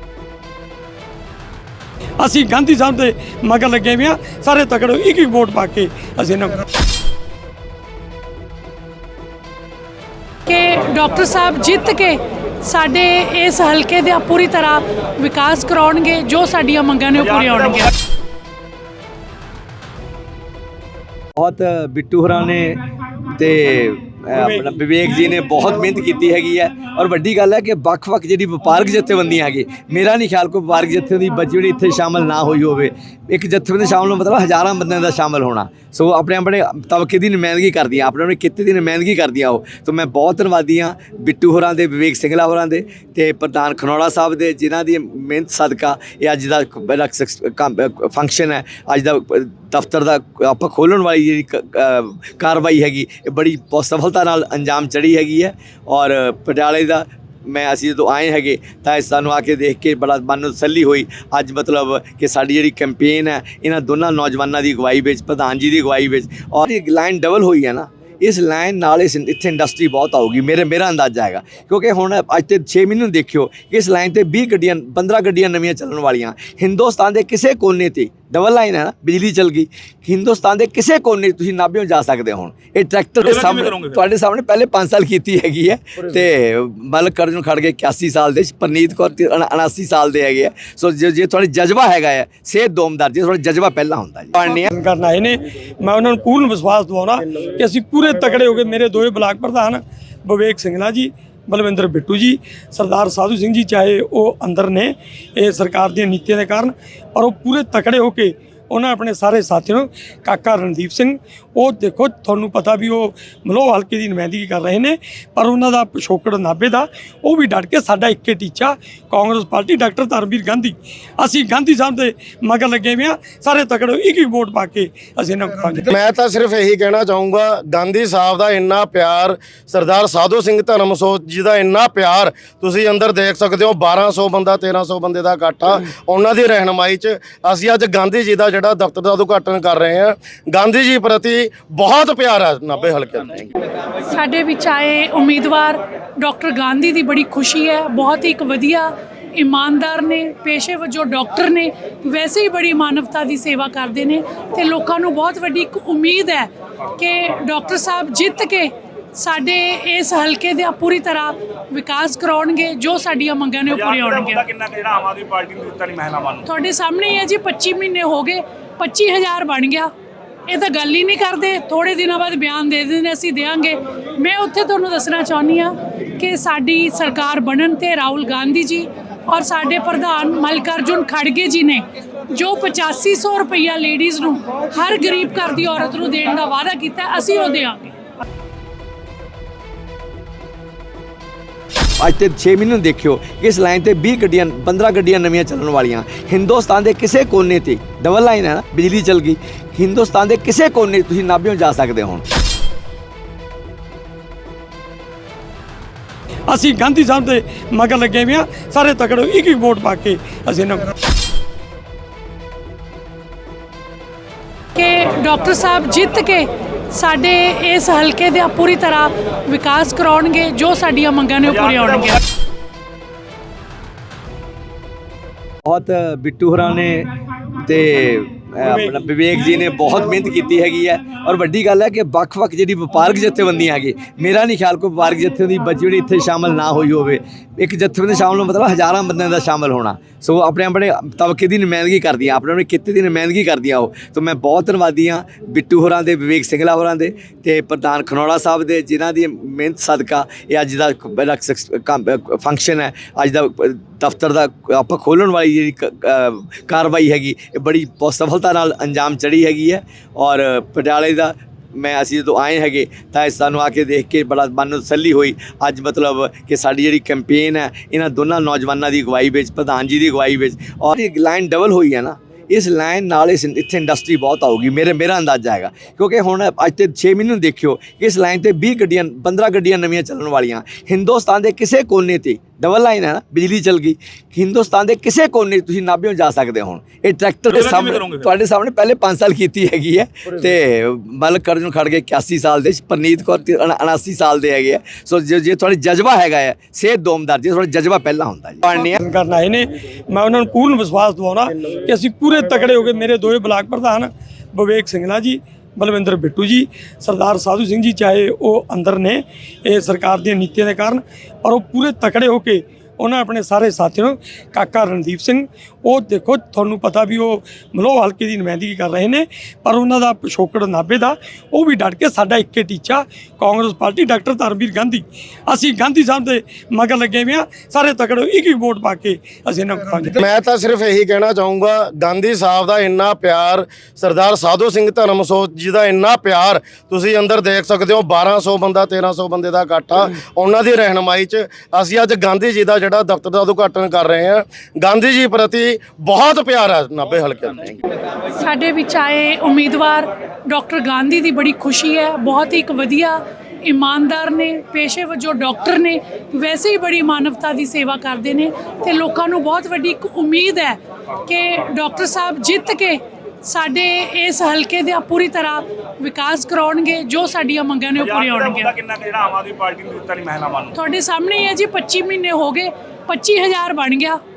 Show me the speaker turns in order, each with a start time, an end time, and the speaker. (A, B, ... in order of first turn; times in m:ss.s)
0:02.2-0:06.6 A
0:10.5-0:17.9 B
0:21.4-0:22.8 C
0:23.3-1:34.7 C
0:24.3-0:24.8 A
1:23.2-1:24.0 D
1:34.4-2:05.9 A
2:05.9-2:23.5 E
2:24.0-2:44.4 B
2:43.8-2:46.4 D
2:46.4-2:49.9 B
2:50.5-3:07.8 B
3:12.0-3:22.2 C
3:26.5-3:30.9 A
3:34.8-3:42.2 B
3:45.6-3:47.1 C
3:47.6-4:59.0 C
3:48.6-3:49.0 A
4:47.5-4:48.3 D
4:58.7-5:30.2 A
5:30.2-5:47.8 E
5:48.4-6:08.8 B
6:08.2-6:10.7 D
6:10.7-6:14.2 B